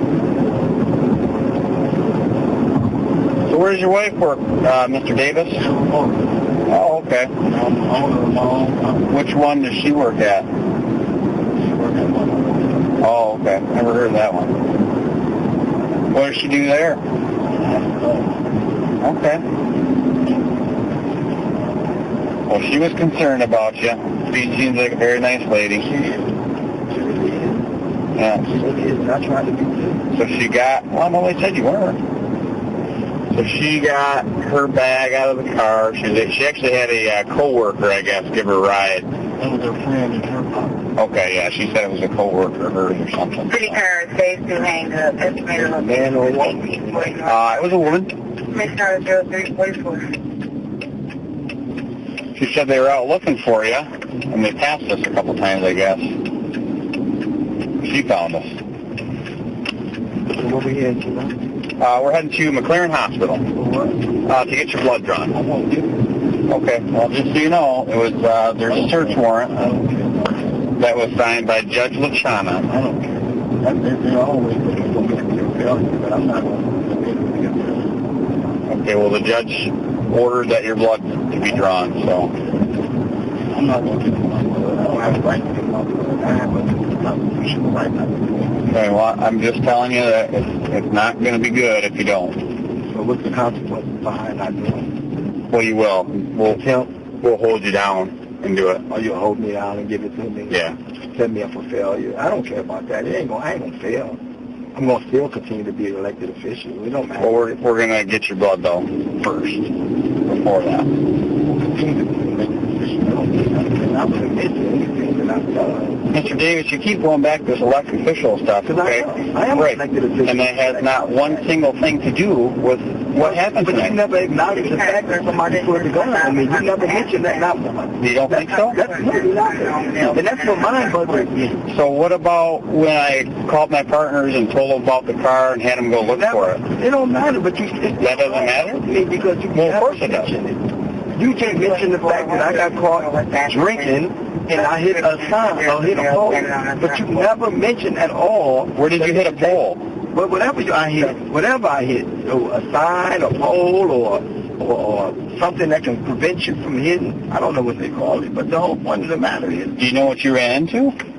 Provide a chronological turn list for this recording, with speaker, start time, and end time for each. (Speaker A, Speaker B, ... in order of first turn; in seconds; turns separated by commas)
Speaker A: 3.5-5.6, Speaker B: 5.6-6.2, Speaker A: 6.7-7.3, Speaker B: 7.4-9.0, Speaker A: 9.1-10.5, Speaker B: 11.6-12.7, Speaker A: 13.0-14.5, Speaker A: 16.1-17.0, Speaker B: 17.5-18.3, Speaker A: 19.0-19.4, Speaker A: 22.5-25.9, Speaker B: 25.8-26.3, Speaker B: 26.9-27.6, Speaker A: 28.1-28.5, Speaker B: 28.4-30.0, Speaker A: 30.1-32.0, Speaker A: 33.3-39.1, Speaker B: 39.4-40.7, Speaker A: 41.0-43.8, Speaker C: 43.5-47.6, Speaker B: 45.6-47.2, Speaker A: 47.2-48.1, Speaker C: 48.5-50.1, Speaker A: 52.3-56.1, Speaker A: 57.8-58.5, Speaker B: 60.3-61.4, Speaker A: 61.8-63.4, Speaker B: 63.5-64.0, Speaker A: 64.2-65.3, Speaker B: 65.3-66.0, Speaker A: 66.5-69.5, Speaker B: 68.7-70.4, Speaker A: 70.8-72.7, Speaker B: 72.7-77.9, Speaker A: 78.7-82.3, Speaker B: 83.5-88.6, Speaker A: 88.7-92.4, Speaker B: 92.8-94.9, Speaker A: 95.5-96.6, Speaker B: 96.4-96.9, Speaker A: 97.2-98.8, Speaker B: 98.9-104.2, Speaker A: 100.5-100.8, Speaker B: 104.7-107.5, Speaker A: 107.2-109.7, Speaker A: 110.2-110.9, Speaker B: 111.5-116.0, Speaker A: 116.1-124.0, Speaker B: 118.6-121.5, Speaker B: 123.2-131.6, Speaker C: 124.5-127.2, Speaker A: 128.0-128.8, Speaker C: 128.5-131.1, Speaker A: 131.7-136.6, Speaker B: 136.0-149.6, Speaker A: 138.0-138.8, Speaker A: 139.5-140.3, Speaker C: 141.5-147.3, Speaker A: 148.8-149.8, Speaker B: 150.1-159.8, Speaker A: 159.8-160.9